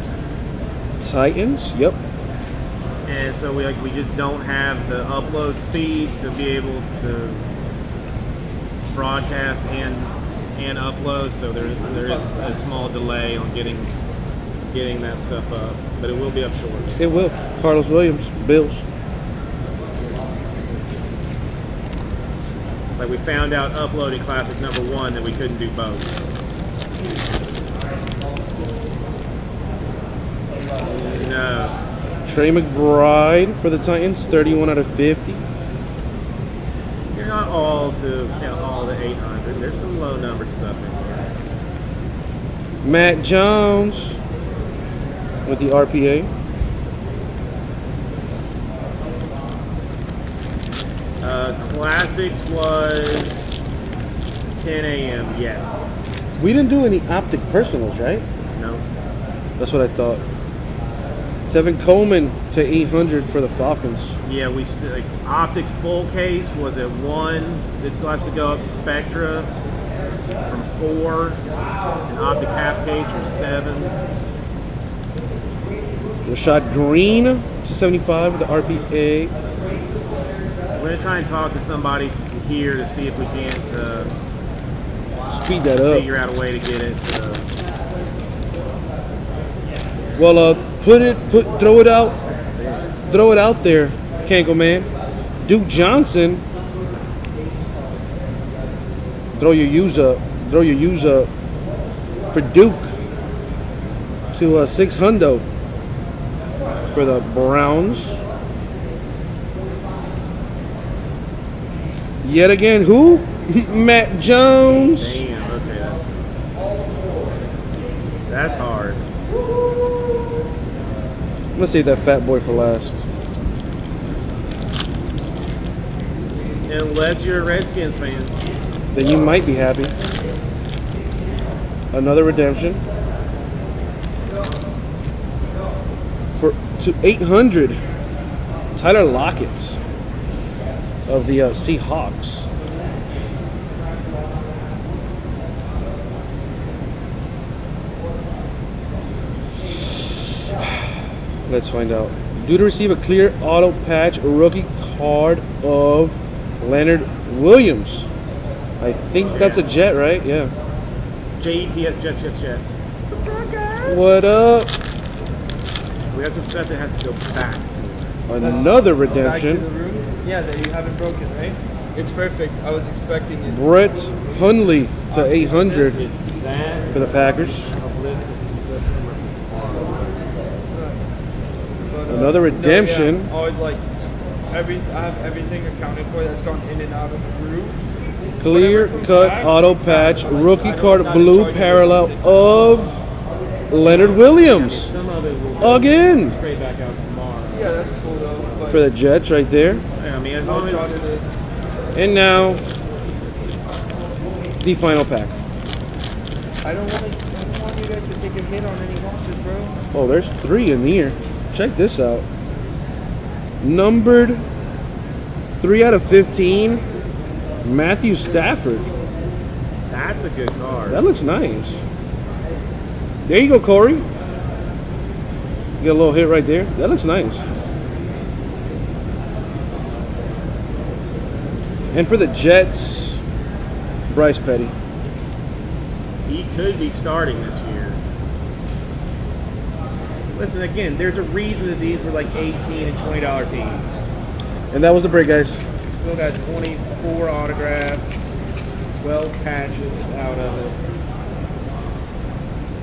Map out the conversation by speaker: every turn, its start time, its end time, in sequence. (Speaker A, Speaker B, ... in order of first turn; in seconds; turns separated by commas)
Speaker A: 1.0-2.0, Speaker B: 3.0-7.4, Speaker B: 8.9-13.9, Speaker B: 14.7-17.0, Speaker A: 17.0-18.8, Speaker B: 23.0-26.1, Speaker B: 30.8-31.8, Speaker A: 32.2-35.4, Speaker B: 37.1-41.3, Speaker A: 42.8-44.2, Speaker A: 45.5-46.3, Speaker B: 51.2-53.6, Speaker B: 54.5-55.9, Speaker A: 56.4-58.2, Speaker B: 58.5-58.8, Speaker A: 59.6-60.2, Speaker A: 61.5-64.1, Speaker B: 64.2-69.5, Speaker B: 70.4-71.4, Speaker B: 72.0-74.0, Speaker A: 76.2-79.3, Speaker B: 80.7-84.1, Speaker A: 85.3-86.1, Speaker B: 85.8-87.5, Speaker A: 90.2-92.2, Speaker B: 92.2-93.0, Speaker A: 93.1-96.4, Speaker A: 99.3-101.3, Speaker A: 102.3-102.9, Speaker A: 104.3-105.4, Speaker A: 106.9-108.2, Speaker A: 112.2-115.2, Speaker B: 114.7-116.2, Speaker B: 118.3-119.0, Speaker A: 121.5-123.0, Speaker B: 126.7-128.4, Speaker A: 128.9-129.9, Speaker A: 131.9-132.8, Speaker A: 136.4-137.8, Speaker A: 138.8-139.8, Speaker A: 141.1-142.5, Speaker A: 149.6-150.9, Speaker A: 151.5-158.1, Speaker A: 158.8-160.5, Speaker B: 159.2-159.9, Speaker B: 161.4-162.8, Speaker C: 163.1-164.1, Speaker A: 163.8-164.7, Speaker B: 166.1-168.2, Speaker A: 168.3-169.7, Speaker C: 168.4-173.6, Speaker A: 173.4-176.1, Speaker C: 175.1-175.5, Speaker B: 175.5-180.2, Speaker A: 176.9-177.7, Speaker C: 180.7-181.2, Speaker C: 181.9-183.8, Speaker A: 182.1-183.3, Speaker C: 184.5-187.8, Speaker A: 188.4-193.0, Speaker C: 188.4-192.7, Speaker A: 193.7-194.9, Speaker B: 193.8-198.8, Speaker A: 195.6-196.3, Speaker C: 197.5-198.8, Speaker A: 198.7-199.8, Speaker B: 199.9-201.1, Speaker C: 200.4-201.3, Speaker A: 201.9-202.6, Speaker A: 204.6-205.3, Speaker C: 206.6-209.8, Speaker A: 209.9-212.2, Speaker A: 213.6-214.4, Speaker A: 215.6-216.8, Speaker A: 217.6-218.9, Speaker B: 219.9-221.1, Speaker A: 220.9-221.8, Speaker A: 223.2-224.1, Speaker A: 225.8-227.4, Speaker A: 231.9-233.2, Speaker A: 234.1-234.7, Speaker B: 236.2-238.0, Speaker B: 240.3-244.0, Speaker A: 244.7-245.6, Speaker B: 245.8-248.3, Speaker B: 249.0-250.7